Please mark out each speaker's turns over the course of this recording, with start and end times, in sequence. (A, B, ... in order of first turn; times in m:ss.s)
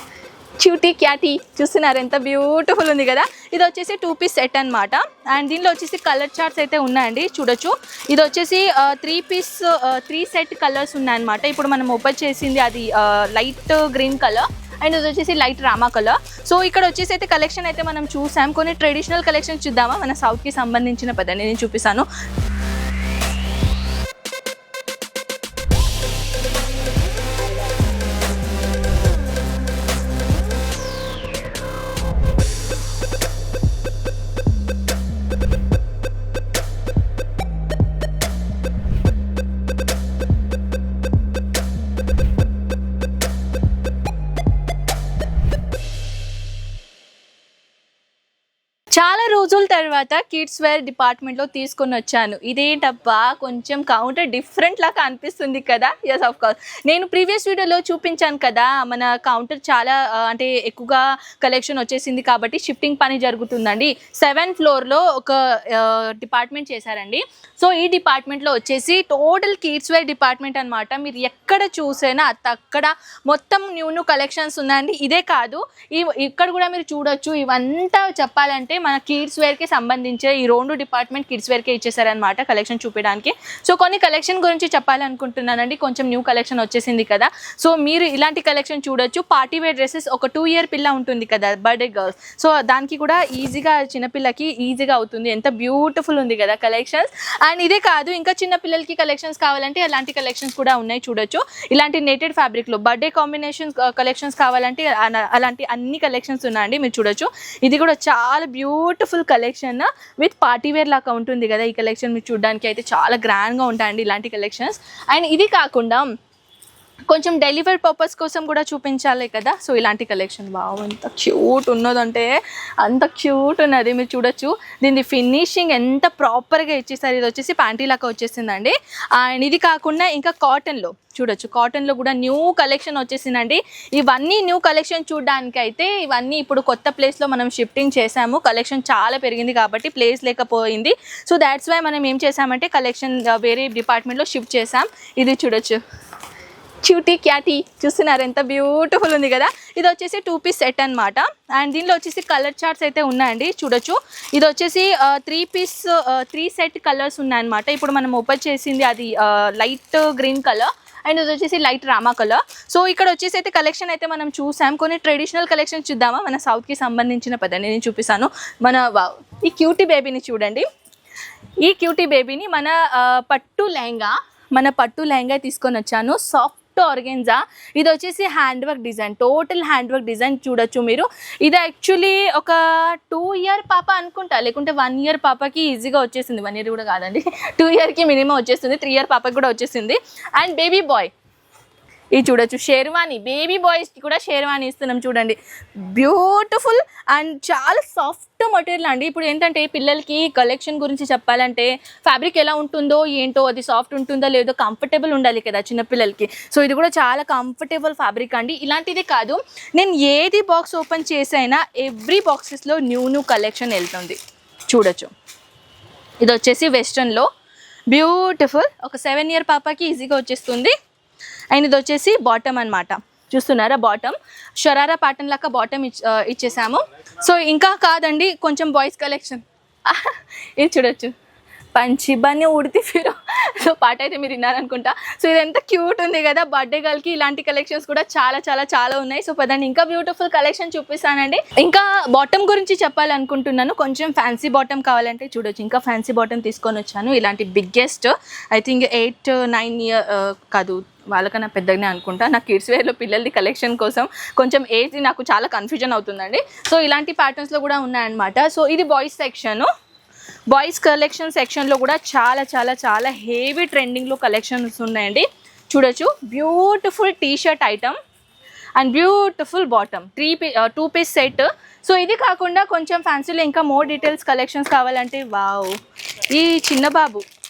0:00.6-0:22.1 A
0:48.9-1:56.1 A
1:57.1-2:25.8 A
2:26.8-2:50.7 A
2:51.6-3:11.1 A
3:12.1-3:35.1 A
3:36.2-3:37.3 A
3:37.9-3:40.8 A
3:41.5-3:51.1 A
3:51.7-4:19.7 A
4:20.5-4:28.0 A
4:28.8-4:37.3 A